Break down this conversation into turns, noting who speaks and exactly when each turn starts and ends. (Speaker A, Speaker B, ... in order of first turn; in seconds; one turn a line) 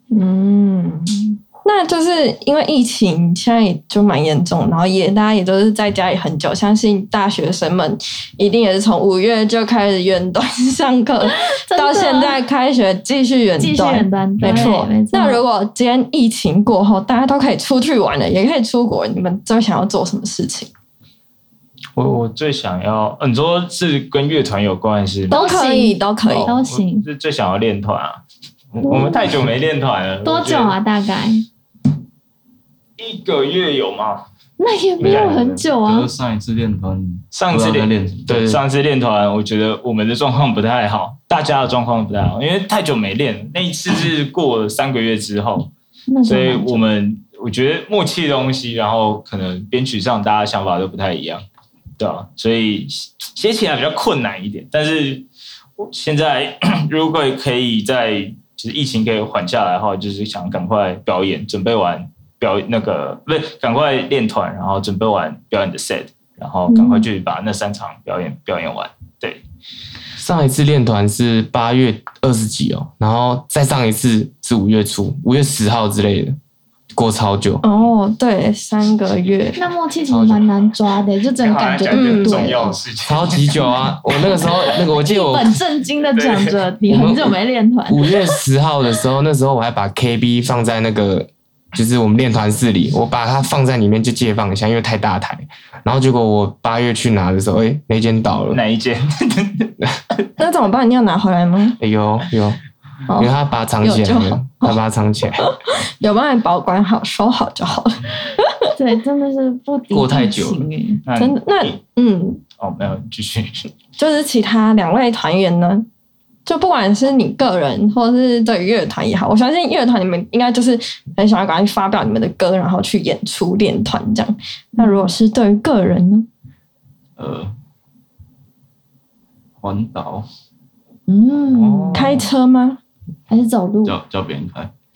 Speaker A: 0.1-20.7
Speaker B: 11.2-12.4
Speaker B: 13.6-15.4
Speaker C: 14.4-14.7
Speaker C: 22.0-25.4
Speaker A: 25.3-26.5
Speaker B: 25.3-27.1
Speaker C: 26.3-28.2
Speaker C: 28.8-30.8
Speaker A: 28.9-29.1
Speaker B: 30.2-31.4
Speaker C: 33.0-34.3
Speaker B: 34.6-36.1
Speaker C: 35.0-35.6
Speaker D: 35.0-35.4
Speaker E: 35.7-38.5
Speaker C: 37.3-45.7
Speaker D: 38.3-38.6
Speaker B: 46.1-46.9
Speaker C: 46.2-51.4
Speaker C: 52.0-55.3
Speaker C: 55.8-69.4
Speaker A: 66.7-67.1
Speaker D: 70.2-76.4
Speaker D: 76.9-77.6
Speaker A: 77.6-79.6
Speaker B: 79.6-82.8
Speaker D: 80.1-80.4
Speaker C: 81.4-83.9
Speaker A: 81.9-82.7
Speaker D: 83.0-85.6
Speaker B: 84.4-88.3
Speaker C: 86.2-86.6
Speaker D: 86.9-87.3
Speaker D: 87.9-98.6
Speaker C: 98.5-99.7
Speaker A: 100.4-101.8
Speaker D: 101.8-102.6
Speaker A: 103.1-104.8
Speaker D: 103.2-105.5
Speaker A: 105.4-108.7
Speaker B: 108.8-111.0
Speaker D: 109.9-110.6
Speaker C: 111.0-111.8
Speaker A: 111.2-112.4
Speaker C: 112.6-113.7
Speaker A: 114.0-115.8
Speaker A: 116.5-126.3
Speaker B: 124.8-125.1
Speaker E: 127.2-127.5
Speaker E: 129.6-130.3
Speaker B: 131.1-132.2
Speaker C: 131.5-132.3
Speaker A: 131.9-132.8
Speaker B: 133.3-134.0
Speaker E: 133.8-134.7